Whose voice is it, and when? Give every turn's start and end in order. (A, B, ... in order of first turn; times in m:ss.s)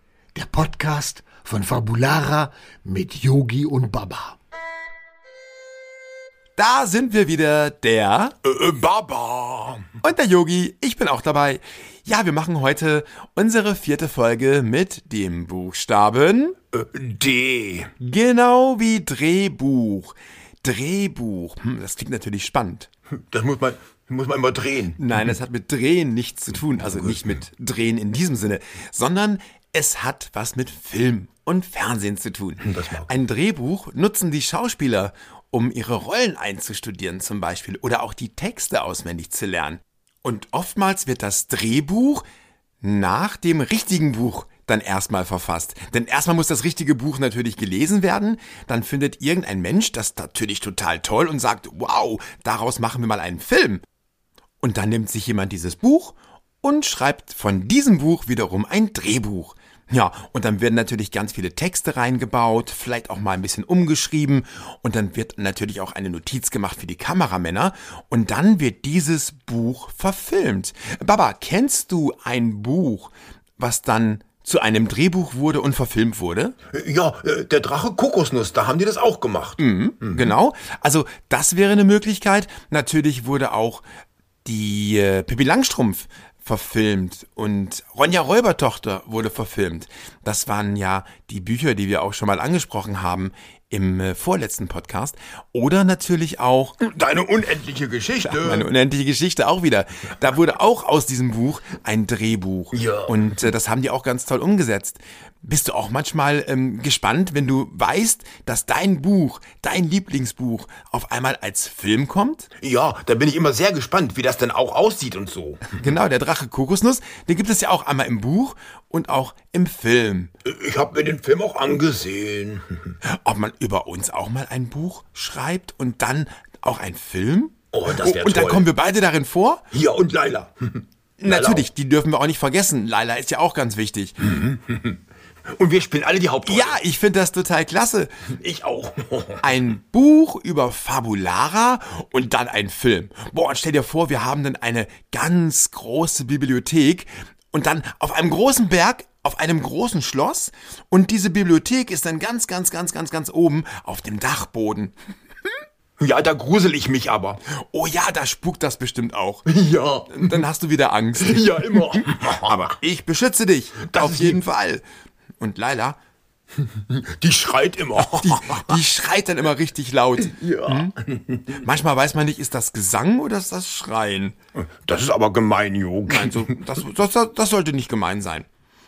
0:00.3-0:04.4 A
0:06.6-0:08.4 B
0:08.4-0:10.0 C
0:10.0-0:16.6 B
0:16.8-0:17.9 C
0:18.0-0:22.9 B
0:23.2-0:25.2 C
0:25.0-0:42.2 B
0:26.8-0:27.3 C
0:32.6-0:33.1 C
0:42.8-0:53.8 B
0:54.6-1:16.6 B
1:16.7-1:20.3 C
1:19.6-1:23.8 B
1:24.4-1:36.8 B
1:36.8-1:38.7 C
1:38.2-1:52.5 B
1:42.7-1:43.2 C
1:52.6-1:55.8 C
1:55.7-2:00.3 B
2:00.4-2:02.9 C
2:03.0-2:09.7 B
2:07.7-2:08.7 C
2:09.7-2:11.7 C
2:11.2-2:14.4 B
2:14.3-2:15.0 C
2:15.5-2:16.8 C
2:16.4-2:18.4 B
2:18.4-2:19.6 C
2:19.4-2:35.0 B
2:36.0-2:37.4 C
2:37.4-2:39.5 B
2:39.4-2:40.4 C
2:40.1-2:44.8 B
2:41.2-2:42.7 C
2:43.8-2:44.4 C
2:45.4-2:46.0 B
2:46.7-2:48.8 C
2:48.0-2:51.0 B
2:50.2-2:51.6 C
2:51.5-2:54.4 B
2:54.8-2:56.7 C
2:56.1-2:58.5 B